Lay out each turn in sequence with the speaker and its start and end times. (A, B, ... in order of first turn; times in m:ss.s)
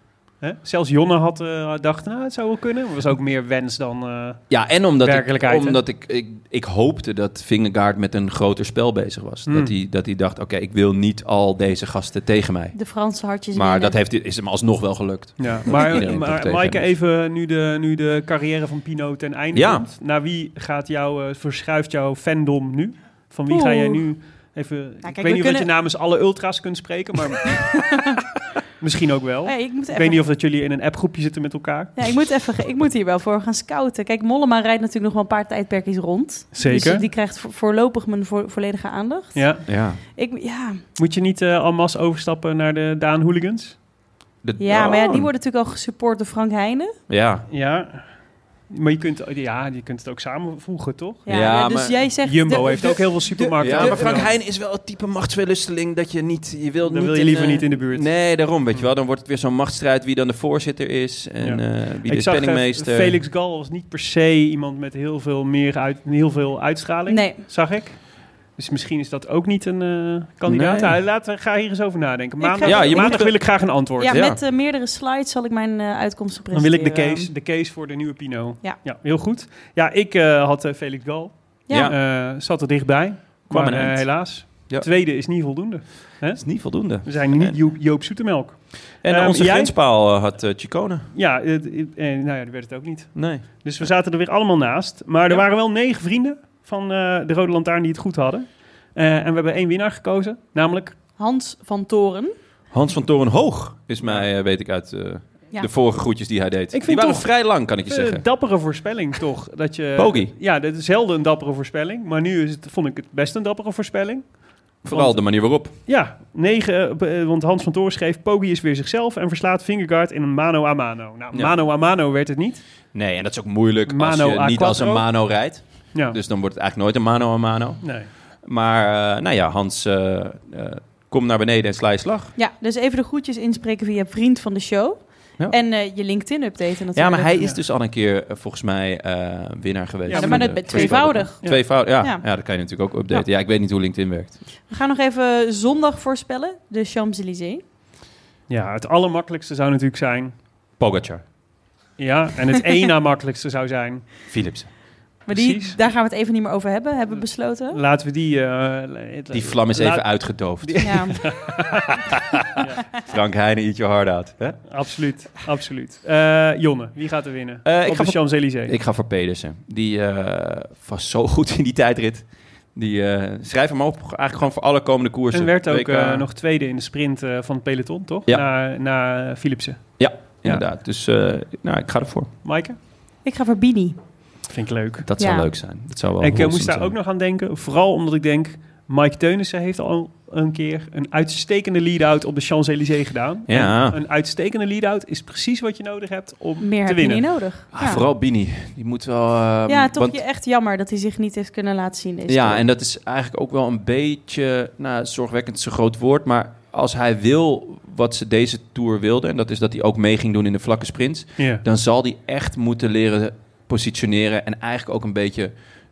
0:00.4-0:05.8 A
0:04.5-0:12.8 B
0:09.5-0:09.7 A
0:12.7-0:14.0 C
0:13.5-0:16.9 B
0:15.4-0:27.7 A
0:19.5-0:19.8 B
0:23.5-0:24.0 C
0:25.0-0:25.7 C
0:27.5-0:28.2 C
0:28.8-0:32.0 A
0:29.4-0:30.2 C
0:32.0-0:40.8 C
0:36.5-0:37.0 A
0:39.3-0:39.6 A
0:39.7-0:40.0 B
0:41.0-0:43.8 A
0:44.4-0:45.3 B
0:44.6-0:46.9 C
0:47.1-0:47.4 B
0:47.5-0:51.3 A
0:51.2-0:54.1 C
0:51.3-0:52.0 B
0:52.2-0:54.3 A
0:53.5-1:03.2 B
0:56.8-0:58.9 A
1:01.4-1:14.2 A
1:07.1-1:07.4 C
1:10.4-1:11.0 B
1:12.4-1:13.4 C
1:12.6-1:14.4 B
1:14.0-1:17.3 C
1:16.5-1:29.7 A
1:21.7-1:21.9 C
1:21.7-1:22.0 B
1:23.5-1:24.9 B
1:26.4-1:27.6 B
1:29.0-1:31.1 B
1:31.1-1:41.0 A
1:33.1-1:33.5 B
1:41.2-1:42.3 C
1:42.7-1:48.2 B
1:44.0-1:44.3 A
1:46.7-2:02.6 A
1:50.0-1:50.3 B
1:54.8-1:55.8 B
2:02.9-2:12.3 B
2:03.9-2:06.2 A
2:07.8-2:08.1 A
2:12.4-2:17.4 C
2:16.9-2:24.4 B
2:20.1-2:21.7 A
2:20.1-2:22.3 C
2:24.7-2:27.6 C
2:28.5-2:30.3 A
2:30.8-2:31.2 B
2:32.0-2:34.3 A
2:34.3-2:34.7 B
2:35.2-2:37.8 C
2:35.3-2:35.8 A
2:37.7-2:42.8 A
2:39.3-2:41.3 B
2:40.8-2:41.2 C
2:42.1-2:44.6 B
2:44.7-2:48.8 A
2:47.6-2:56.2 B
2:55.3-3:00.6 A
3:00.0-3:02.3 B
3:02.4-3:02.8 A
3:03.2-3:04.0 C
3:04.5-3:05.1 A
3:05.0-3:06.9 B
3:05.2-3:05.5 C
3:06.2-3:17.3 A
3:13.5-3:14.0 B
3:16.6-3:18.0 C
3:17.7-3:20.2 B
3:19.7-3:22.6 C
3:22.3-3:35.5 B
3:31.4-3:31.6 A